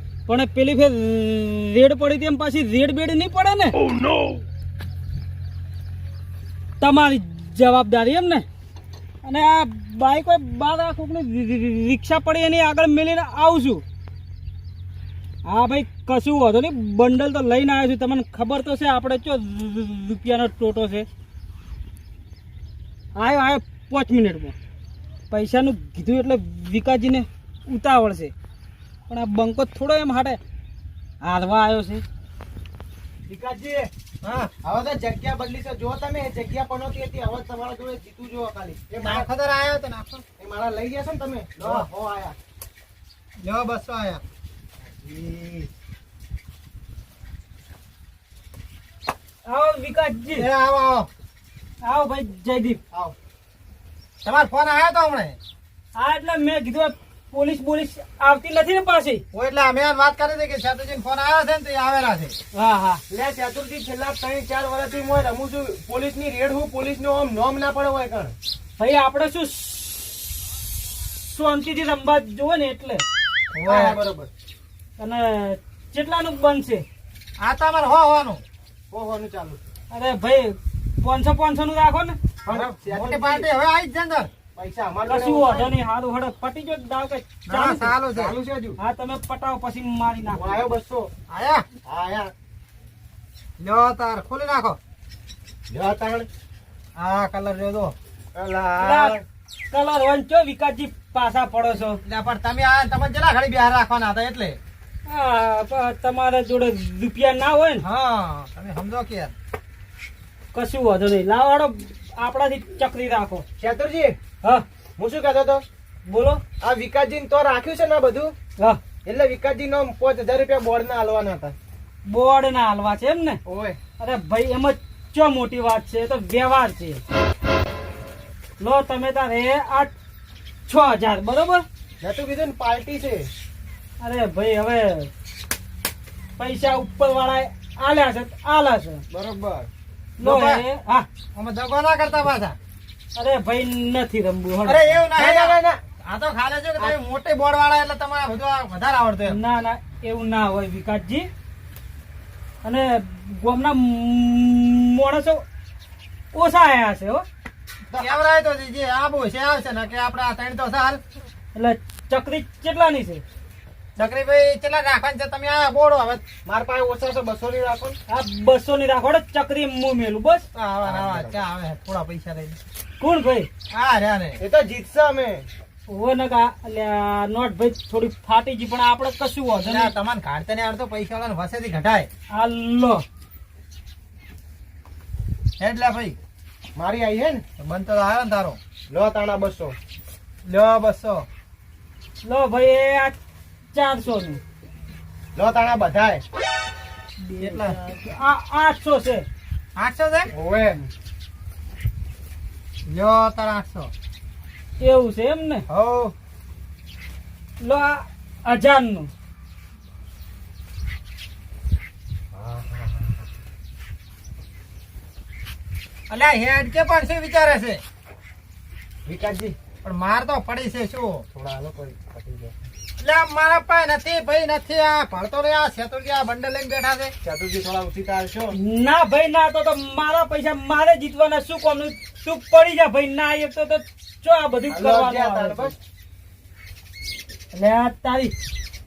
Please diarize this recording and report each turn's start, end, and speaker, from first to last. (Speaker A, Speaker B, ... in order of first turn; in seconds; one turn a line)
Speaker A: 0.3-3.8
Speaker A: 6.8-8.4
Speaker A: 9.2-13.8
Speaker A: 15.5-21.1
Speaker A: 23.2-24.6
Speaker A: 25.3-28.3
Speaker A: 29.1-30.4
Speaker A: 31.2-32.0
Speaker B: 33.3-33.9
Speaker C: 34.2-34.5
Speaker B: 34.6-39.3
Speaker C: 39.0-40.2
Speaker B: 40.4-42.4
Speaker C: 41.6-41.9
Speaker C: 43.4-44.2
Speaker B: 45.0-45.7
Speaker A: 49.5-50.5
Speaker C: 50.4-51.1
Speaker A: 51.8-52.8
Speaker C: 54.2-55.4
Speaker A: 56.0-59.2
Speaker C: 59.3-62.4
Speaker A: 62.5-63.0
Speaker B: 63.1-68.3
Speaker A: 68.8-70.2
Speaker A: 71.3-73.0
Speaker C: 73.6-74.0
Speaker B: 73.6-74.3
Speaker A: 75.0-76.8
Speaker C: 77.4-78.4
Speaker B: 78.9-79.6
Speaker A: 79.9-82.2
Speaker B: 82.5-83.5
Speaker C: 82.5-84.3
Speaker B: 84.5-85.7
Speaker A: 85.0-87.9
Speaker C: 87.5-88.3
Speaker B: 88.1-88.8
Speaker A: 88.8-90.6
Speaker B: 90.3-91.1
Speaker C: 91.3-91.7
Speaker B: 91.8-92.3
Speaker C: 93.6-94.8
Speaker B: 95.7-96.3
Speaker C: 97.0-97.9
Speaker B: 98.3-99.2
Speaker A: 98.8-99.2
Speaker A: 99.7-102.0
Speaker C: 102.0-104.6
Speaker A: 105.1-107.8
Speaker C: 107.8-109.3
Speaker A: 110.5-113.5
Speaker B: 113.6-114.2
Speaker B: 115.0-115.7
Speaker A: 116.1-116.4
Speaker B: 116.6-118.3
Speaker B: 119.0-121.5
Speaker A: 122.1-123.4
Speaker B: 123.5-123.8
Speaker A: 124.0-127.0
Speaker A: 128.6-129.9
Speaker A: 130.7-131.7
Speaker B: 132.0-133.3
Speaker A: 134.0-135.1
Speaker A: 136.4-139.0
Speaker B: 139.1-139.7
Speaker A: 140.2-141.1
Speaker C: 140.2-140.6
Speaker C: 141.3-142.6
Speaker A: 143.2-145.0
Speaker C: 144.7-149.4
Speaker B: 145.2-145.8
Speaker A: 149.3-151.3
Speaker A: 152.6-155.4
Speaker A: 156.3-157.2
Speaker C: 157.9-161.0
Speaker A: 161.6-163.2
Speaker C: 164.0-166.2
Speaker B: 166.4-168.0
Speaker A: 168.1-170.5
Speaker C: 170.5-172.6
Speaker B: 170.9-171.4
Speaker A: 173.0-173.5
Speaker C: 173.7-174.4
Speaker B: 174.4-175.5
Speaker A: 175.9-179.9
Speaker C: 179.6-182.1
Speaker A: 182.3-183.0
Speaker C: 185.6-186.2
Speaker B: 186.8-187.4
Speaker C: 187.6-188.6
Speaker B: 188.9-189.8
Speaker C: 190.5-191.3
Speaker A: 192.2-193.2
Speaker A: 193.7-194.4
Speaker B: 195.4-196.2
Speaker A: 197.2-199.2
Speaker C: 197.4-197.8
Speaker C: 199.8-200.3
Speaker B: 200.3-200.8
Speaker C: 202.9-203.9
Speaker A: 204.8-205.7
Speaker C: 205.7-206.0
Speaker A: 207.6-209.1
Speaker B: 212.3-213.2
Speaker C: 216.1-217.8
Speaker B: 219.1-219.6
Speaker C: 219.8-221.2
Speaker B: 221.3-222.5
Speaker C: 223.0-227.1
Speaker B: 227.2-228.6
Speaker A: 228.5-235.7
Speaker B: 234.7-235.8
Speaker A: 237.5-238.3